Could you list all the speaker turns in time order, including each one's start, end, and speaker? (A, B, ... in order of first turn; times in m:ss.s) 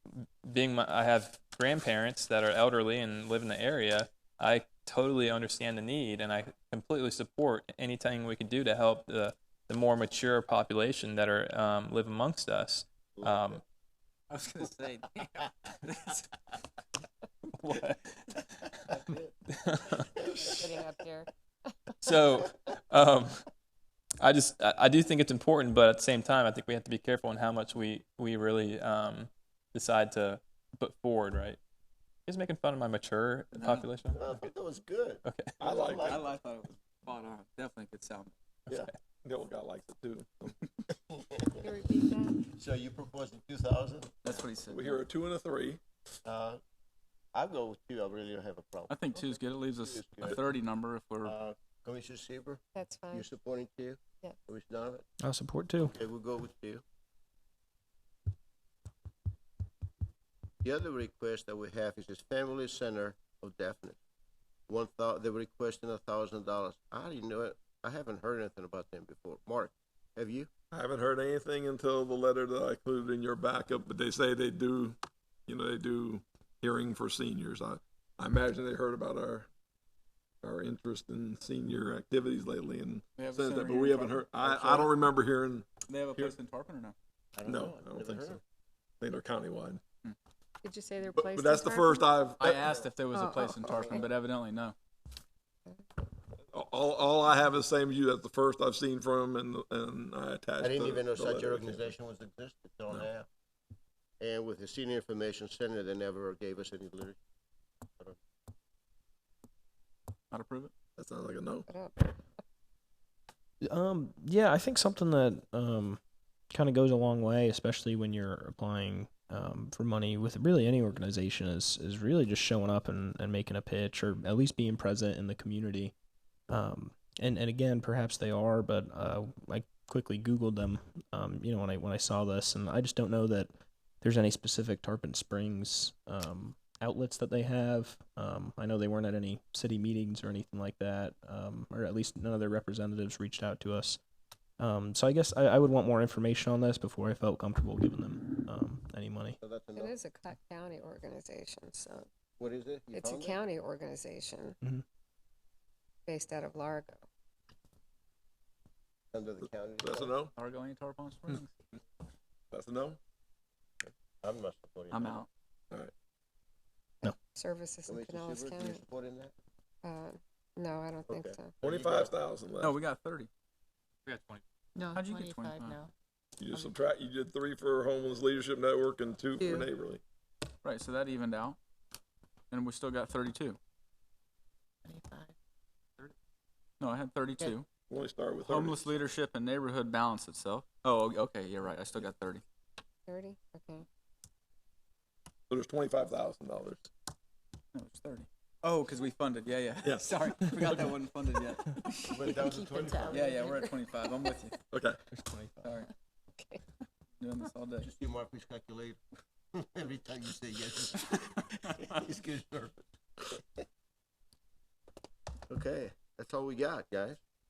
0:00.2-0:13.6 A
0:13.2-0:13.6 B
0:14.3-0:16.3 C
0:17.6-0:18.8 A
0:18.9-0:19.3 B
0:19.5-0:20.5 A
0:20.4-0:21.3 D
0:22.0-0:23.4 A
0:24.2-0:31.6 A
0:32.3-0:34.2 A
0:33.5-0:33.9 C
0:34.1-0:36.3 B
0:35.2-0:35.5 A
0:35.6-0:36.2 E
0:36.0-0:38.3 C
0:38.7-0:38.9 A
0:39.2-0:40.6 E
0:41.0-0:41.7 B
0:41.6-0:42.4 D
0:42.5-0:44.4 B
0:44.2-0:45.0 C
0:44.7-0:45.8 E
0:46.2-0:46.6 B
0:47.3-0:50.5 B
0:48.9-0:51.3 C
0:51.2-0:52.6 B
0:52.7-0:53.3 D
0:53.1-0:55.0 B
0:55.2-0:55.9 F
0:55.8-0:56.8 B
1:00.6-1:04.0 B
1:04.7-1:10.5 B
1:10.7-1:19.5 E
1:20.4-1:26.3 E
1:23.1-1:24.2 C
1:24.4-1:24.9 B
1:25.9-1:26.9 C
1:27.4-1:28.4 B
1:27.5-1:28.4 E
1:29.0-1:29.8 E
1:30.6-1:32.1 D
1:31.2-1:32.7 E
1:32.4-1:34.7 C
1:32.7-1:33.0 B
1:33.1-1:34.1 D
1:36.5-1:41.9 E
1:40.6-1:43.2 B
1:44.2-1:47.2 B
1:50.3-1:50.7 C
1:51.0-1:51.6 E
1:51.7-1:52.3 D
1:53.6-2:05.9 F
2:06.5-2:24.0 F
2:24.6-2:29.4 F
2:29.4-2:29.9 B
2:29.7-2:32.1 D
2:32.4-2:33.4 B
2:32.9-2:34.6 D
2:36.0-2:37.0 D
2:39.1-2:40.2 B
2:39.8-2:40.3 E
2:40.4-2:41.6 C
2:42.5-2:43.0 E
2:44.2-2:45.2 B
2:44.9-2:45.3 C
2:47.0-2:48.8 D
2:47.9-2:49.3 B
2:49.8-2:51.6 D
2:51.1-2:52.1 B
2:51.6-2:52.8 E
2:52.6-2:53.3 C
2:54.1-2:54.4 A
2:54.8-2:55.8 G
2:54.9-2:55.8 C
2:56.4-3:00.0 E
3:00.6-3:01.6 C
3:02.5-3:03.6 C
3:04.8-3:05.3 G
3:06.8-3:07.7 C
3:07.9-3:08.8 E
3:08.4-3:12.4 C
3:13.1-3:13.8 D
3:15.5-3:16.9 E
3:17.7-3:22.4 C
3:19.8-3:20.1 E
3:22.1-3:23.4 B
3:22.5-3:23.1 G
3:23.1-3:24.6 C
3:23.3-3:23.7 D
3:24.2-3:24.6 D
3:24.7-3:25.0 E
3:25.1-3:25.5 F
3:25.6-3:25.9 C
3:26.4-3:26.6 D
3:27.2-3:27.9 C
3:27.8-3:29.0 B
3:29.5-3:33.4 B
3:35.5-3:37.2 B